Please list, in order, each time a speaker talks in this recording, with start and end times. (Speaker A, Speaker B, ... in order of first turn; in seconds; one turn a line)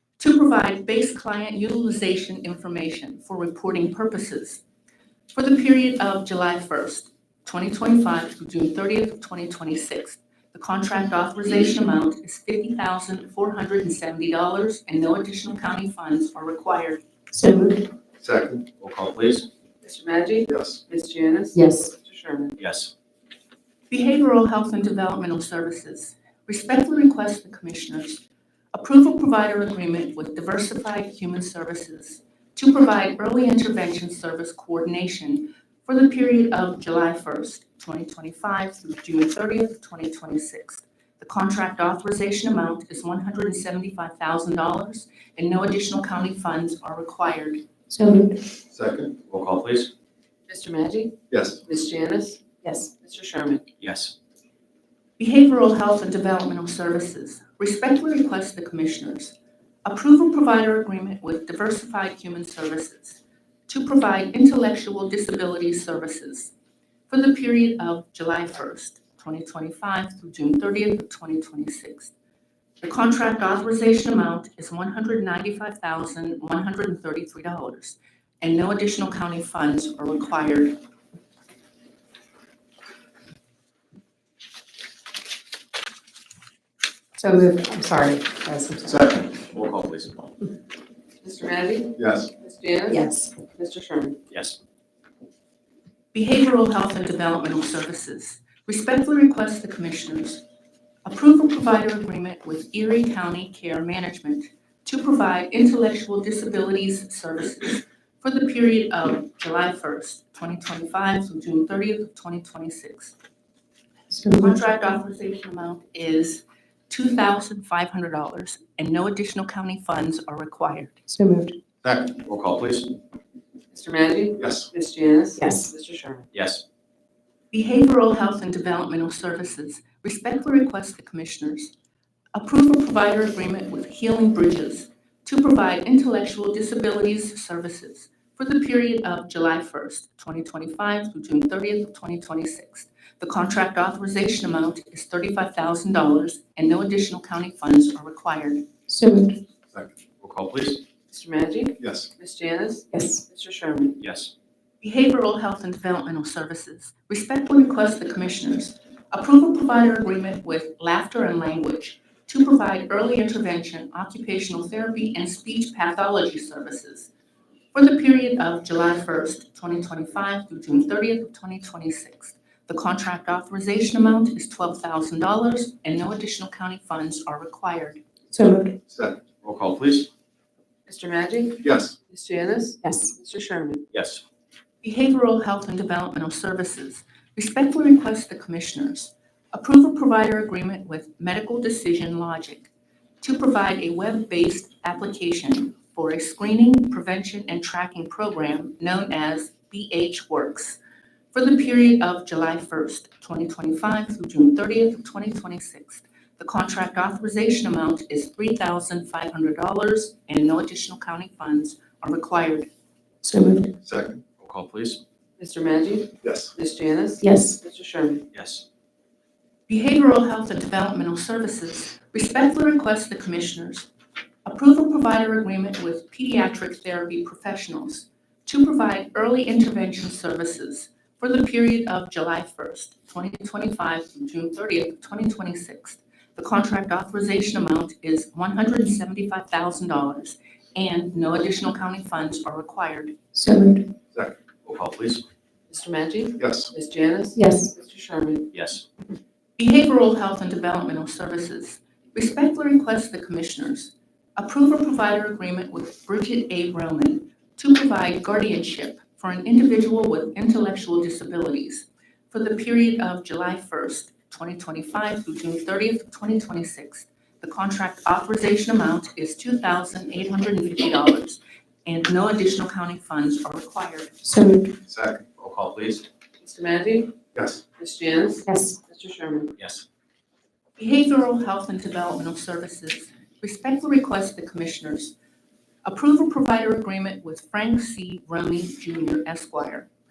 Speaker A: 0.2-4.6
Speaker A: 5.3-17.0
Speaker B: 17.3-17.9
Speaker C: 18.2-18.7
Speaker D: 18.8-19.5
Speaker E: 19.8-22.6
Speaker C: 20.5-20.8
Speaker B: 21.5-21.9
Speaker D: 22.6-22.9
Speaker A: 23.9-28.2
Speaker A: 28.7-47.6
Speaker B: 47.9-48.4
Speaker C: 48.7-49.2
Speaker D: 49.3-49.9
Speaker E: 50.5-52.4
Speaker C: 51.3-51.6
Speaker B: 52.6-52.9
Speaker E: 53.0-53.7
Speaker D: 53.8-54.1
Speaker A: 55.2-66.5
Speaker A: 67.1-72.1
Speaker A: 72.8-80.8
Speaker B: 87.2-89.0
Speaker C: 88.8-89.3
Speaker D: 89.3-90.3
Speaker E: 91.2-94.2
Speaker C: 92.0-92.3
Speaker B: 92.9-93.4
Speaker D: 94.3-94.6
Speaker A: 96.1-100.4
Speaker A: 101.0-113.1
Speaker B: 114.1-114.6
Speaker A: 114.3-121.0
Speaker B: 121.1-121.6
Speaker D: 121.9-123.0
Speaker E: 123.7-126.3
Speaker C: 124.4-124.7
Speaker B: 125.4-125.7
Speaker D: 126.3-126.6
Speaker A: 127.5-131.7
Speaker A: 132.3-148.7
Speaker B: 148.9-149.4
Speaker D: 150.2-150.8
Speaker E: 151.1-154.0
Speaker C: 151.8-152.1
Speaker B: 152.9-153.2
Speaker D: 154.0-154.3
Speaker A: 154.8-167.1
Speaker A: 167.7-178.0
Speaker B: 178.3-178.8
Speaker C: 178.9-179.2
Speaker D: 179.4-180.1
Speaker E: 180.9-183.8
Speaker C: 181.6-181.9
Speaker B: 182.8-183.1
Speaker D: 183.9-184.2
Speaker A: 184.8-192.7
Speaker A: 193.2-200.8
Speaker A: 201.3-212.7
Speaker B: 213.2-213.7
Speaker C: 213.9-214.2
Speaker D: 214.4-215.0
Speaker E: 215.4-218.2
Speaker C: 216.2-216.5
Speaker B: 217.2-217.6
Speaker D: 218.3-218.7
Speaker A: 219.7-223.9
Speaker A: 224.4-243.2
Speaker B: 243.3-243.9
Speaker D: 244.7-245.2
Speaker E: 245.7-248.5
Speaker C: 246.4-246.7
Speaker B: 247.3-247.8
Speaker D: 248.5-248.8
Speaker A: 249.6-274.2
Speaker B: 274.2-274.8
Speaker C: 274.9-275.2
Speaker D: 275.4-276.1
Speaker E: 276.4-277.1
Speaker C: 277.3-277.6
Speaker E: 277.8-279.5
Speaker B: 278.4-278.8
Speaker D: 279.6-279.8
Speaker A: 280.8-285.1
Speaker A: 285.9-289.9